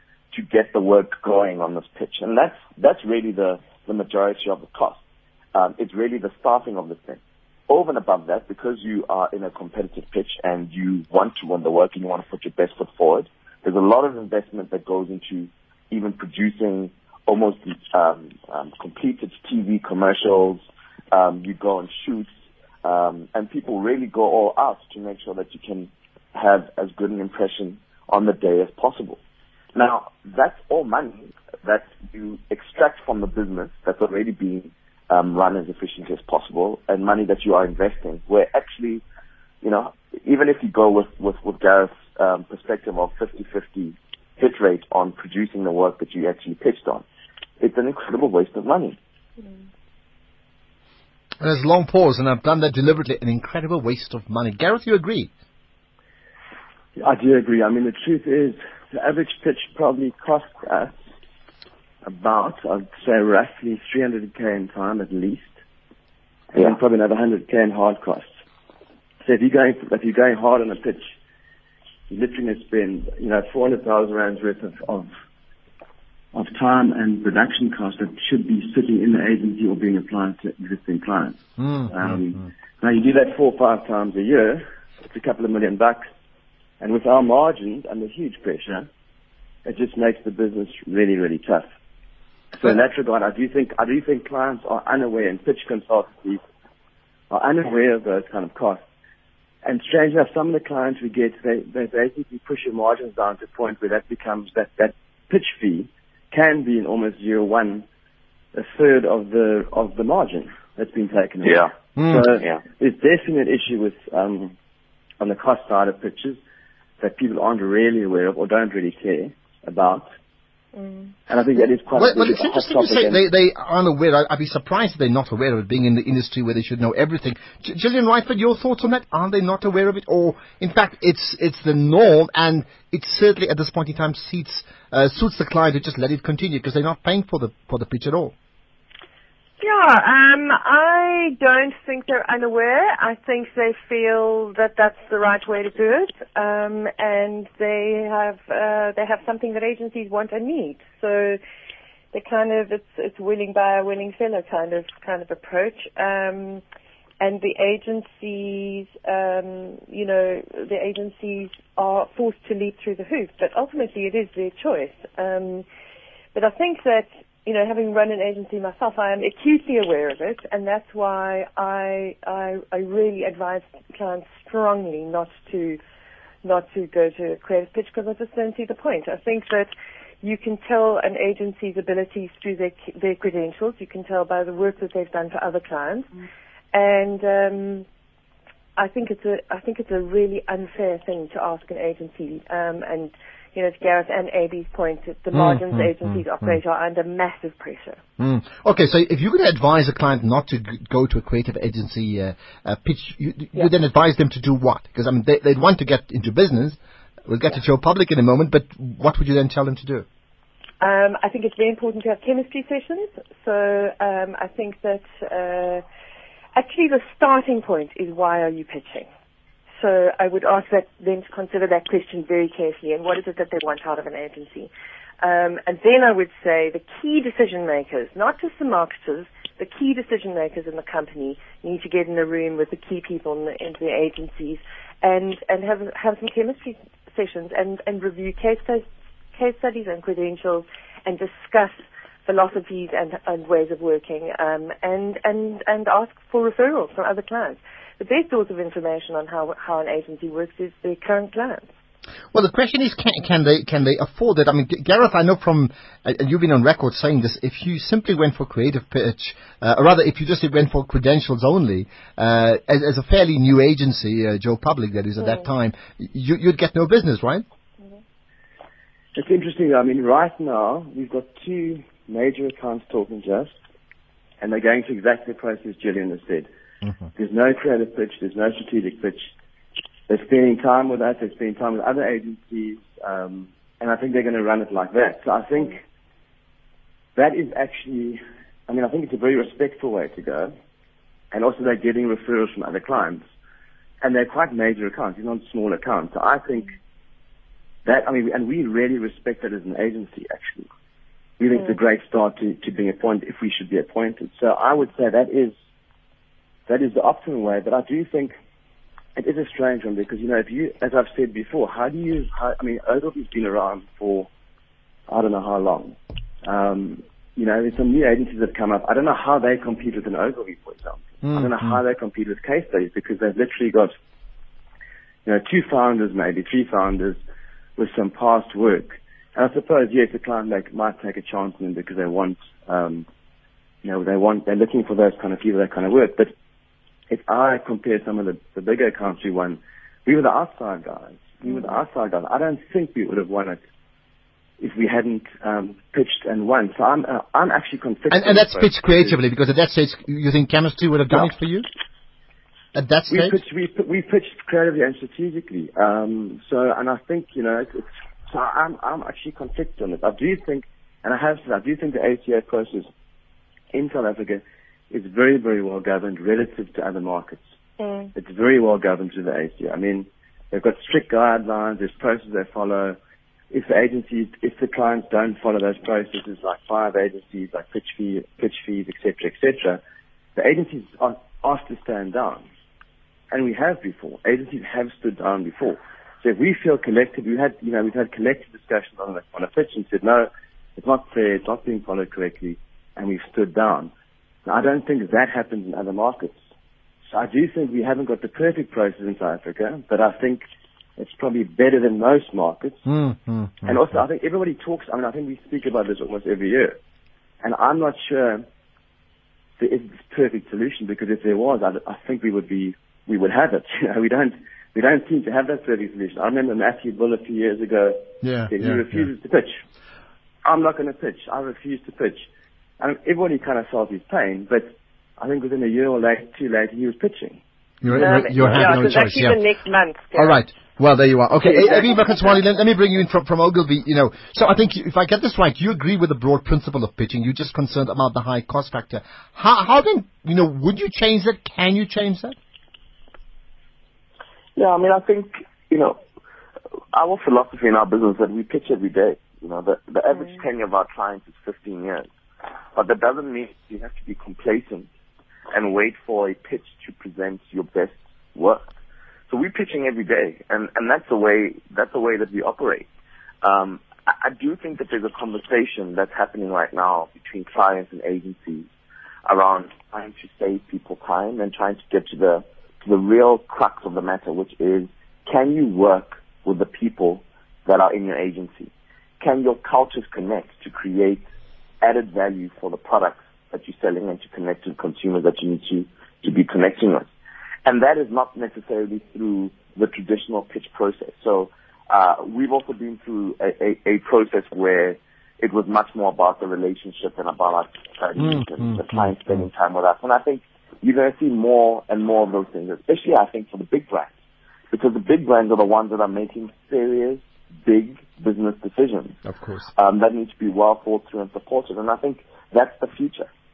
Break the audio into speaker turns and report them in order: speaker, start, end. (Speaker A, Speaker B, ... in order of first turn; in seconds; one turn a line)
Speaker A: 0.3-5.0
Speaker A: 5.5-22.3
Speaker A: 22.8-29.2
Speaker A: 29.7-39.0
Speaker A: 39.6-47.0
Speaker A: 47.6-49.0
Speaker B: 51.4-55.3
Speaker C: 57.0-61.0
Speaker C: 62.0-65.5
Speaker C: 66.5-68.3
Speaker C: 69.2-71.1
Speaker C: 72.1-75.1
Speaker C: 76.3-86.0
Speaker B: 81.6-82.2
Speaker C: 86.8-88.9
Speaker C: 89.6-91.7
Speaker C: 92.5-96.4
Speaker C: 97.3-98.8
Speaker C: 99.6-107.8
Speaker C: 108.5-114.5
Speaker B: 112.0-112.2
Speaker C: 115.2-116.4
Speaker C: 117.0-120.0
Speaker C: 121.3-123.2
Speaker B: 121.9-138.3
Speaker D: 139.6-151.4
Speaker D: 152.1-156.6
Speaker D: 157.2-165.6
Speaker D: 166.3-175.8
Speaker D: 176.4-179.7
Speaker D: 180.2-186.1
Speaker D: 186.7-187.8
Speaker D: 188.8-198.0
Speaker B: 195.3-196.5
Speaker B: 198.2-206.8
Speaker B: 207.3-210.1
Speaker D: 210.8-215.8
Speaker D: 216.5-219.1
Speaker D: 219.8-224.7
Speaker D: 225.2-241.7
Speaker D: 242.2-251.7
Speaker B: 252.3-267.4
Speaker C: 269.1-273.5
Speaker C: 274.4-276.5
Speaker C: 277.1-279.2
Speaker C: 280.1-285.8
Speaker C: 287.1-290.5
Speaker C: 291.3-293.2
Speaker C: 294.0-296.7
Speaker C: 297.8-300.7
Speaker C: 301.4-305.5
Speaker C: 306.7-308.3
Speaker C: 309.1-314.3
Speaker C: 315.1-323.9
Speaker B: 321.2-321.8
Speaker C: 325.2-327.2
Speaker C: 327.8-333.1
Speaker C: 333.8-336.3
Speaker C: 337.1-343.6
Speaker C: 344.6-349.1
Speaker B: 348.1-351.6
Speaker B: 352.7-353.4
Speaker C: 353.1-362.9
Speaker C: 363.7-367.4
Speaker D: 367.8-368.1
Speaker C: 368.1-373.0
Speaker C: 373.5-379.8
Speaker C: 380.3-382.4
Speaker C: 383.3-393.9
Speaker C: 394.4-396.4
Speaker C: 397.1-400.4
Speaker C: 401.0-402.9
Speaker B: 402.9-403.8
Speaker C: 403.6-406.8
Speaker C: 407.4-408.4
Speaker C: 409.6-419.6
Speaker B: 418.2-419.1
Speaker C: 420.4-422.2
Speaker C: 422.8-427.4
Speaker B: 427.8-429.4
Speaker C: 427.9-428.7
Speaker D: 428.0-430.4
Speaker B: 430.1-442.4
Speaker D: 431.4-431.9
Speaker A: 444.6-446.0
Speaker A: 446.9-452.1
Speaker A: 452.7-454.9
Speaker A: 455.5-458.7
Speaker A: 459.3-462.9
Speaker A: 463.4-468.7
Speaker A: 469.2-481.2
Speaker A: 481.8-487.1
Speaker A: 487.6-504.1
Speaker B: 498.2-499.5
Speaker A: 504.7-509.2
Speaker B: 509.3-509.7
Speaker A: 509.7-513.3